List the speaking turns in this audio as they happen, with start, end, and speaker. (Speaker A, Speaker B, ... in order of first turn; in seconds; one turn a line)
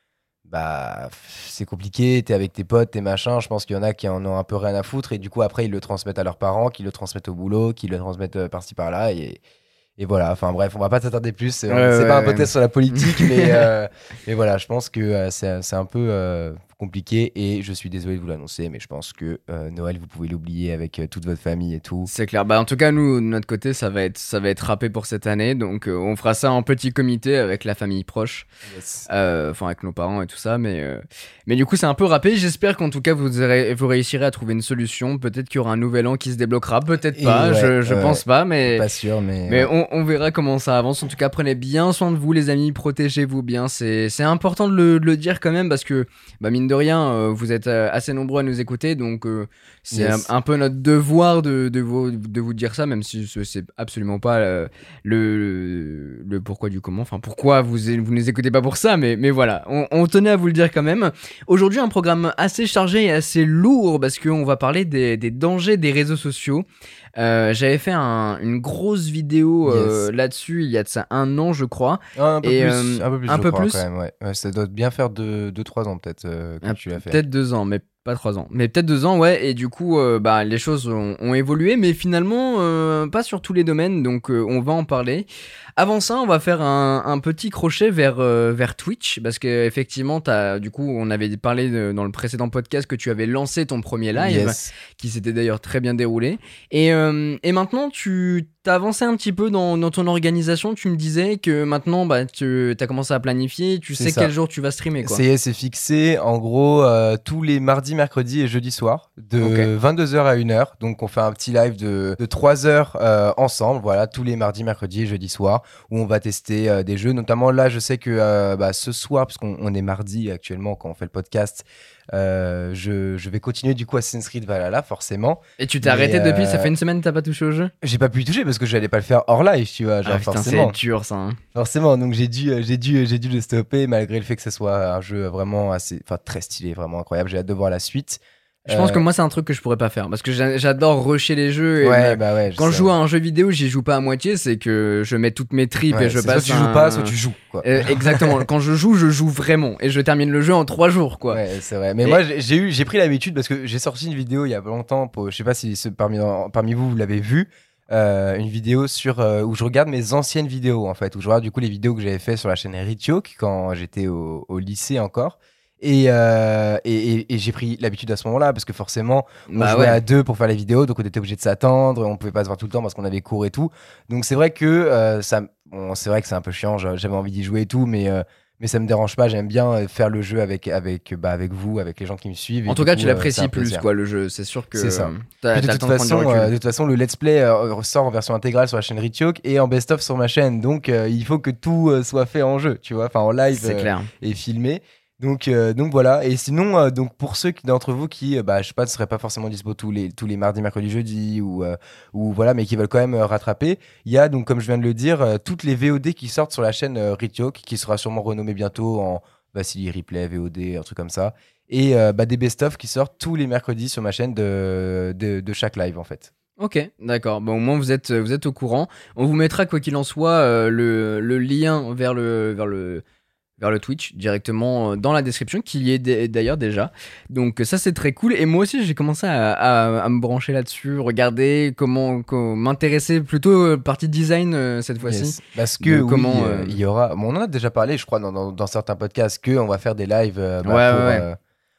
Speaker A: 0.5-9.4
Speaker A: 10.0-22.1
Speaker B: 11.7-13.6
Speaker B: 22.1-28.5
Speaker A: 28.7-29.1
Speaker B: 29.1-38.8
Speaker A: 37.1-39.7
Speaker B: 39.5-66.6
Speaker A: 49.9-50.2
Speaker B: 67.2-73.8
Speaker A: 69.6-70.0
Speaker A: 72.2-77.2
Speaker B: 76.6-105.2
Speaker A: 94.1-94.7
Speaker A: 104.0-104.3
Speaker A: 105.0-126.7
Speaker B: 109.4-109.7
Speaker B: 125.6-127.7
Speaker A: 127.8-130.8
Speaker B: 130.0-131.4
Speaker A: 131.5-139.0
Speaker B: 138.7-151.4
Speaker A: 141.8-142.9
Speaker A: 145.9-148.4
Speaker A: 151.3-183.8
Speaker B: 169.5-170.0
Speaker B: 182.7-186.5
Speaker A: 184.7-216.3
Speaker B: 193.5-194.1
Speaker B: 216.6-223.0
Speaker B: 223.6-236.8
Speaker A: 235.0-241.4
Speaker B: 240.6-241.2